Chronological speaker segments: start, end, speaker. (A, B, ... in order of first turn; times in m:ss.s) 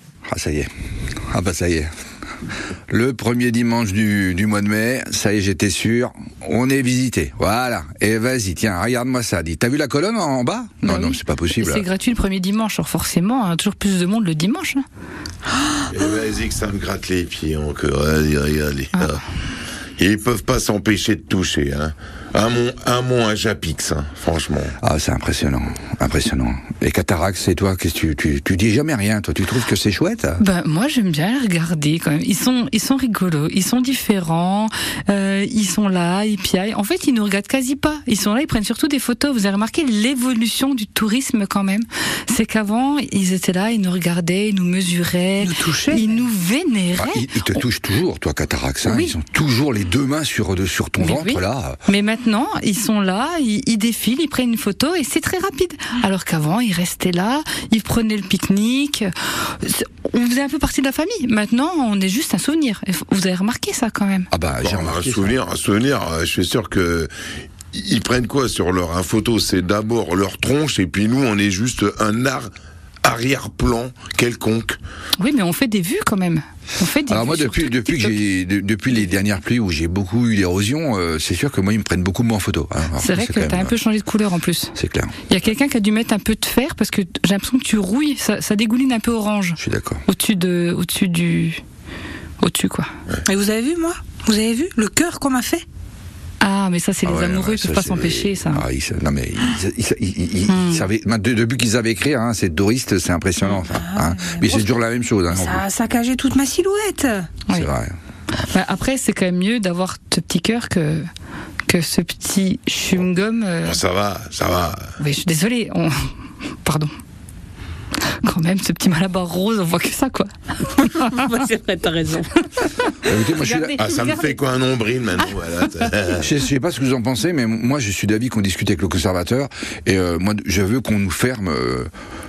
0:00.3-0:00.7 A
0:01.3-0:01.9 A
0:02.9-0:11.9 A
0:10.8-0:14.8 B
0:15.9-0:19.2 C
0:20.0-0:24.8 C
0:24.8-0:30.4 A
0:30.4-0:47.5 B
0:45.4-0:46.3 D
0:47.0-0:51.8 A
0:48.8-0:49.2 B
0:51.0-1:04.3 B
1:04.3-1:05.4 A
1:04.6-1:07.1 C
1:07.7-1:12.5 C
1:13.0-1:14.8 C
1:15.2-1:18.2 B
1:17.1-1:23.8 A
1:23.0-1:24.8 B
1:24.8-1:25.2 A
1:25.3-1:31.6 B
1:29.6-1:30.0 A
1:32.4-1:32.9 B
1:33.3-1:35.6 D
1:36.4-1:38.6 B
1:37.0-1:45.6 A
1:40.5-1:40.9 B
1:43.4-1:44.7 D
1:45.3-1:47.4 D
1:47.5-1:48.0 A
1:48.4-1:51.1 B
1:51.7-1:53.8 B
1:53.6-1:54.9 C
1:55.0-1:56.1 B
1:56.6-1:56.9 B
1:58.2-2:01.1 B
2:00.8-2:02.6 D
2:03.0-2:03.8 A
2:03.1-2:04.4 B
2:03.8-2:06.3 C
2:06.2-2:11.9 A